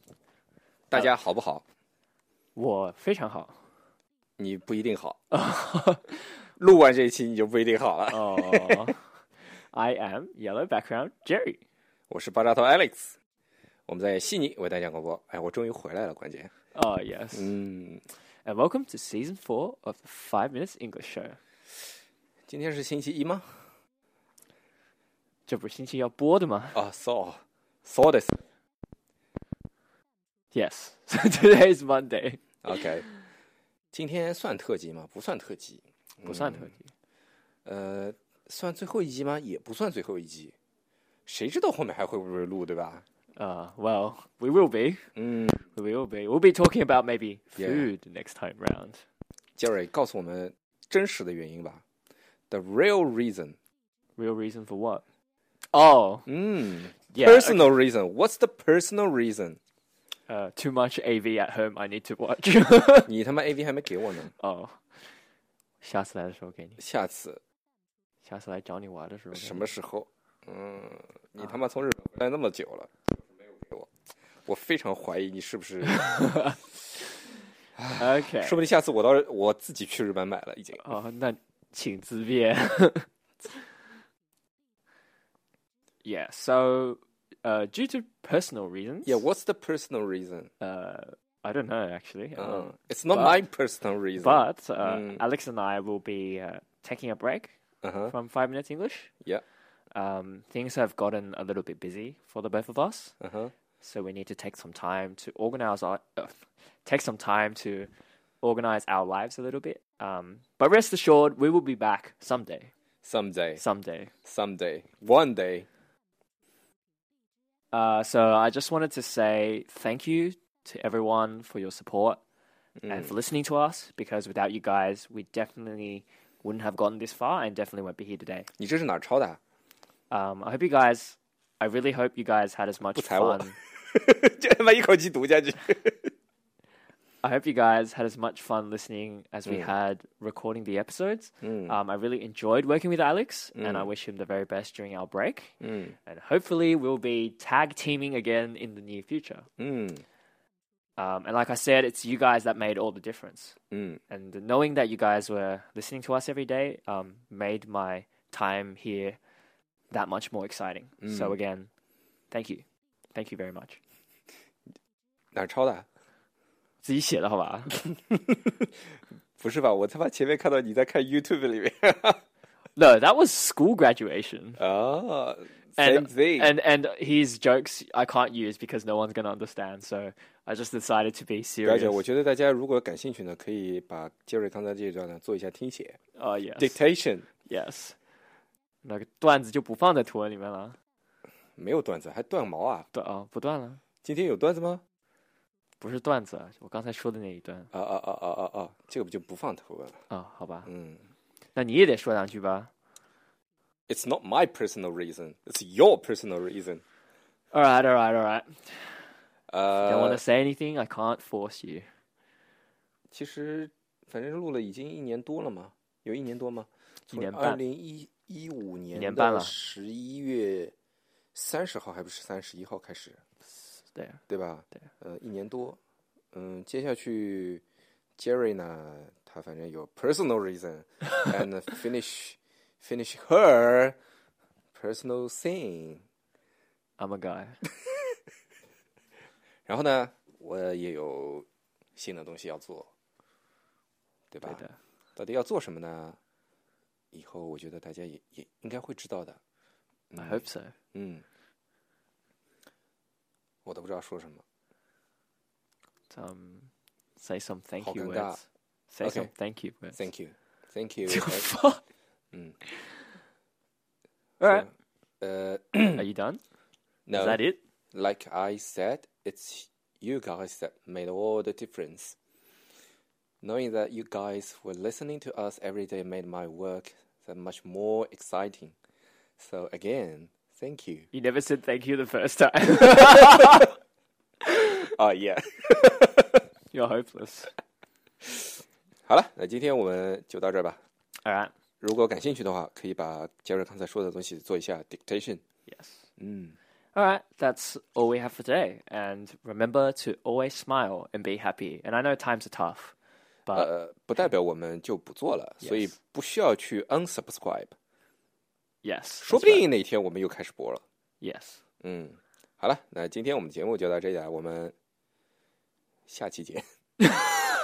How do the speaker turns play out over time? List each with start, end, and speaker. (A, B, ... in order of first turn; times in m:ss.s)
0:00.9-0:01.6 A
0:02.6-0:03.6 B
0:04.4-0:05.2 A
0:05.3-0:06.2 B
0:06.6-0:08.9 A
0:08.1-0:09.1 B
0:09.7-0:11.6 B
0:12.1-0:13.2 A
0:13.9-0:16.5 A
0:16.7-0:17.5 B
0:17.3-0:18.0 A
0:18.4-0:21.4 B
0:22.5-0:23.5 A
0:25.5-0:26.8 B
0:26.7-0:28.4 A
0:30.5-0:33.1 B
0:32.6-0:33.0 A
0:33.9-0:36.7 A
0:36.2-0:36.9 B
0:37.6-0:40.5 A
0:41.2-0:43.0 A
0:43.4-0:45.1 B
0:45.2-0:45.6 A
0:45.7-0:49.0 B
0:47.6-0:47.9 A
0:49.6-0:51.8 A
0:52.5-0:53.6 A
0:54.2-0:55.0 B
0:55.7-0:56.3 B
0:56.3-0:59.6 A
0:57.1-0:57.7 B
1:00.3-1:03.1 B
1:03.1-1:04.3 A
1:04.3-1:04.8 B
1:05.8-1:06.8 B
1:06.8-1:07.4 A
1:08.2-1:09.6 B
1:09.3-1:13.9 A
1:14.4-1:16.2 A
1:15.9-1:17.2 B
1:17.8-1:20.8 A
1:18.0-1:18.6 B
1:20.8-1:23.1 B
1:26.0-1:29.2 B
1:29.0-1:30.5 A
1:30.6-1:33.4 B
1:32.4-1:35.2 A
1:34.2-1:37.6 B
1:37.8-1:38.1 A
1:38.1-1:39.1 B
1:39.9-1:43.1 B
1:43.2-1:43.5 A
1:43.8-1:47.9 B
1:48.4-1:52.7 B
1:53.0-1:53.6 A
1:53.6-1:54.1 B
1:54.2-1:55.7 A
1:57.7-2:02.2 B
2:02.8-2:03.1 A
2:02.9-2:08.5 B
2:08.6-2:09.4 A
2:10.1-2:13.6 B
2:12.9-2:16.1 A
2:17.2-2:29.5 B
2:19.4-2:19.7 A
2:21.4-2:21.8 A
2:23.5-2:23.9 A
2:25.6-2:25.9 A
2:29.6-2:30.0 A
2:31.0-2:33.6 B
2:33.7-2:34.0 A
2:34.1-2:39.2 B
2:39.9-2:41.7 B
2:41.0-2:41.4 A
2:42.3-2:43.8 B
2:45.3-2:45.8 A
2:46.8-2:47.8 B
2:48.1-2:48.5 A
2:49.4-2:52.2 A
2:52.8-2:54.6 B
2:54.6-2:56.5 A
2:55.8-3:02.0 B
3:01.6-3:06.0 A
3:06.2-3:06.8 B
3:06.6-3:07.3 A
3:07.4-3:07.9 B
3:08.8-3:10.8 B
3:11.6-3:12.9 A
3:12.9-3:13.8 B
3:14.0-3:14.8 A
3:15.8-3:17.7 B
3:17.7-3:20.0 A
3:20.1-3:20.7 B
3:20.6-3:21.0 A
3:21.6-3:22.7 B
3:23.9-3:26.8 A
3:27.5-3:29.1 B
3:29.5-3:30.2 A
3:29.8-3:31.9 B
3:33.1-3:40.7 A
3:37.1-3:37.6 B
3:38.9-3:39.5 B
3:41.3-3:43.2 A
3:43.6-3:44.2 B
3:44.3-3:45.8 A
3:46.3-3:47.6 A
3:48.2-3:54.0 A
3:54.7-3:56.0 A
3:57.0-3:57.6 B
3:59.7-4:02.9 A
4:04.3-4:04.6 A
4:04.4-4:04.8 B
4:05.2-4:06.2 A
4:07.1-4:09.4 A
4:10.1-4:10.4 A
4:10.2-4:10.7 B
4:10.9-4:11.2 A
4:13.6-4:14.4 A
4:16.1-4:20.0 B
4:17.8-4:18.4 A
4:19.0-4:19.3 A
4:19.9-4:21.5 A
4:21.1-4:21.8 B
4:24.4-4:24.7 B
4:24.4-4:24.7 A
4:25.2-4:26.0 A
4:25.9-4:26.4 B
4:27.1-4:27.4 A
4:27.1-4:27.6 B
4:27.9-4:32.2 A
4:33.4-4:38.7 A
4:39.4-4:41.1 A
4:41.1-4:43.7 B
4:44.9-4:46.4 A
4:46.7-4:47.5 B
4:49.1-4:50.8 A
4:51.2-4:51.5 B
4:51.8-4:55.4 A
4:55.7-4:56.0 B
4:56.2-4:56.6 A
4:56.9-5:02.9 B
5:03.5-5:07.7 A
5:05.6-5:05.9 B
5:08.8-5:09.6 B
5:09.2-5:10.8 A
5:11.2-5:11.6 B
5:11.8-5:14.7 A
5:16.1-5:16.6 A